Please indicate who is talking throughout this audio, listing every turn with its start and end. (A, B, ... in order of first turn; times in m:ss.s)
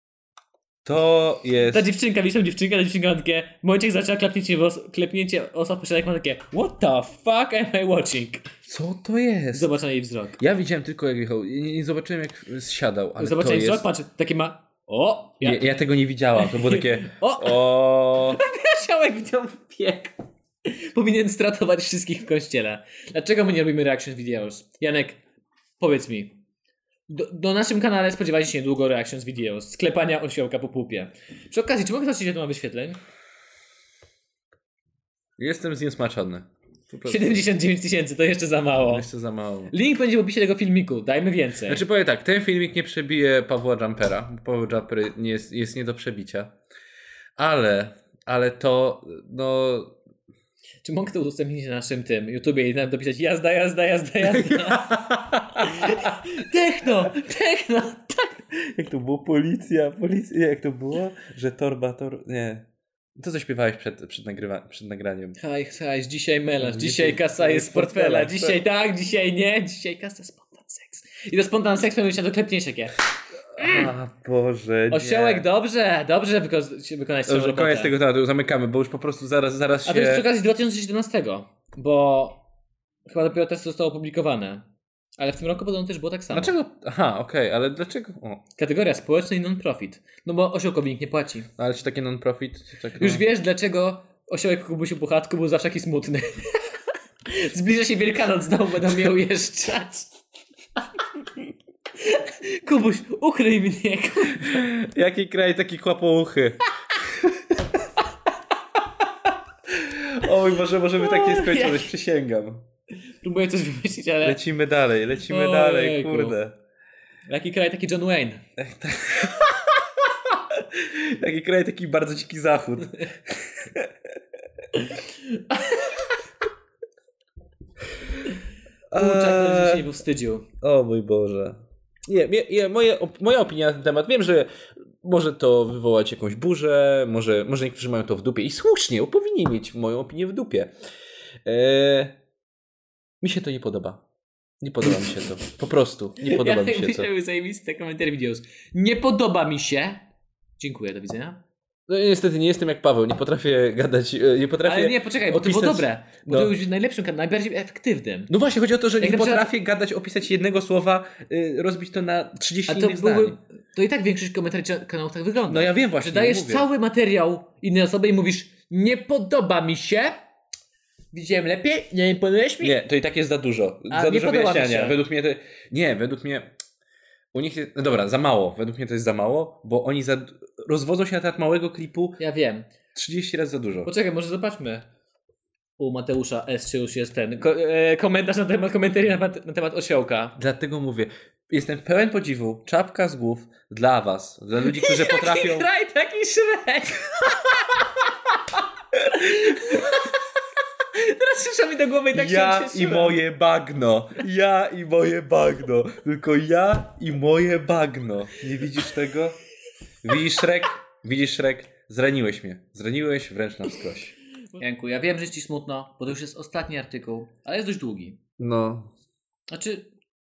0:00.8-0:01.9 A
0:01.7-0:08.5 B
0:08.7-0:09.7 A
0:09.5-0:10.4 B
0:10.4-0:13.9 A
0:13.2-0:15.7 B
0:15.4-0:18.4 A
0:16.4-0:25.2 B
0:25.8-0:26.4 B
0:27.1-0:33.0 B
0:35.4-0:37.4 A
0:37.0-0:39.1 B
0:38.9-0:39.7 A
0:39.7-0:41.8 B
0:41.7-0:46.5 A
0:47.4-0:49.9 A
0:50.8-0:55.0 B
0:54.2-0:56.2 A
0:55.6-0:58.4 B
0:58.7-1:02.6 A
1:03.2-1:05.4 A
1:05.4-1:13.0 B
1:06.6-1:08.6 A
1:13.6-1:15.5 A
1:13.6-1:13.9 B
1:14.9-1:17.9 B
1:17.3-1:20.2 A
1:19.8-1:22.4 B
1:23.1-1:24.7 B
1:25.2-1:26.5 B
1:26.3-1:28.4 A
1:28.6-1:31.5 B
1:31.6-1:33.2 A
1:33.0-1:36.7 B
1:37.3-1:40.1 B
1:42.0-1:44.7 B
1:44.4-1:47.6 A
1:49.7-1:52.6 A
1:51.0-1:51.9 B
1:53.2-1:54.4 B
1:54.2-1:56.6 A
1:55.3-1:56.4 B
1:57.3-1:58.4 B
1:58.6-1:59.8 A
2:00.5-2:03.9 A
2:04.8-2:06.1 B
2:08.9-2:09.9 A
2:08.9-2:10.5 B
2:10.6-2:14.5 A
2:15.0-2:20.7 A
2:21.5-2:22.1 A
2:23.2-2:24.0 A
2:24.6-2:27.1 A
2:26.2-2:30.0 B
2:30.6-2:31.4 B
2:31.9-2:36.5 A
2:34.6-2:38.3 B
2:38.3-2:43.4 A
2:39.0-2:39.5 B
2:42.7-2:50.2 B
2:45.5-2:46.7 A
2:51.1-2:52.8 B
2:52.6-2:56.5 A
2:53.9-2:55.0 B
2:57.3-3:02.2 A
3:02.2-3:02.7 B
3:03.0-3:03.9 A
3:03.8-3:04.9 B
3:05.8-3:10.4 B
3:10.4-3:15.7 A
3:14.6-3:17.8 B
3:19.1-3:20.2 B
3:20.8-3:23.2 B
3:22.1-3:29.4 A
3:30.0-3:34.2 A
3:34.6-3:38.2 B
3:38.4-3:38.9 A
3:39.5-3:39.9 B